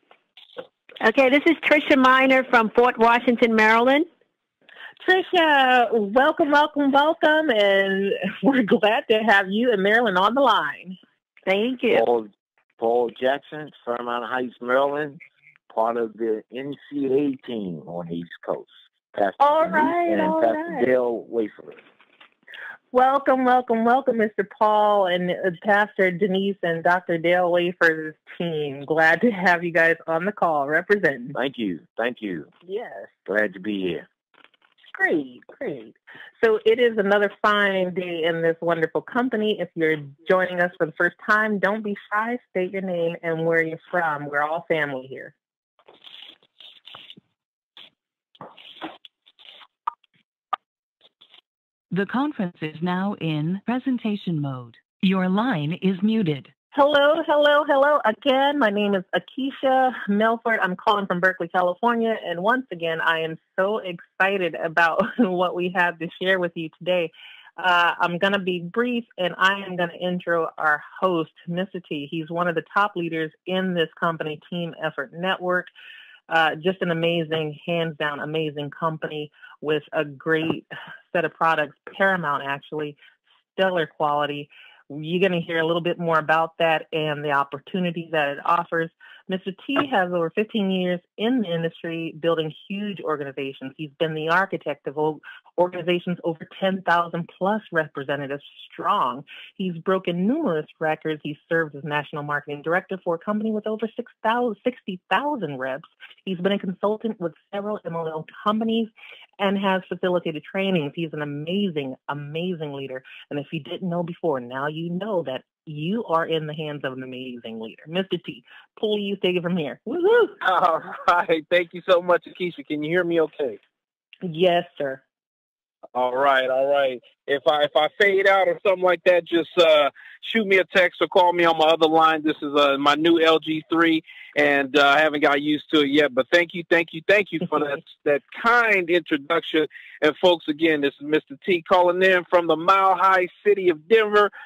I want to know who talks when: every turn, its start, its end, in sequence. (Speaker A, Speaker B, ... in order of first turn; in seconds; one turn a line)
Speaker A: 1.0-4.1
Speaker B: 5.0-11.0
Speaker A: 11.4-12.1
Speaker C: 11.9-12.3
Speaker C: 12.8-15.2
Speaker C: 15.7-21.8
Speaker B: 19.4-20.9
Speaker B: 22.9-31.4
Speaker C: 31.3-32.5
Speaker B: 32.6-33.1
Speaker C: 33.2-34.0
Speaker B: 34.9-45.3
Speaker D: 51.9-56.5
Speaker B: 56.7-75.7
Speaker B: 76.3-83.0
Speaker B: 83.5-120.3
Speaker E: 120.4-123.6
Speaker B: 124.2-125.0
Speaker E: 125.9-144.3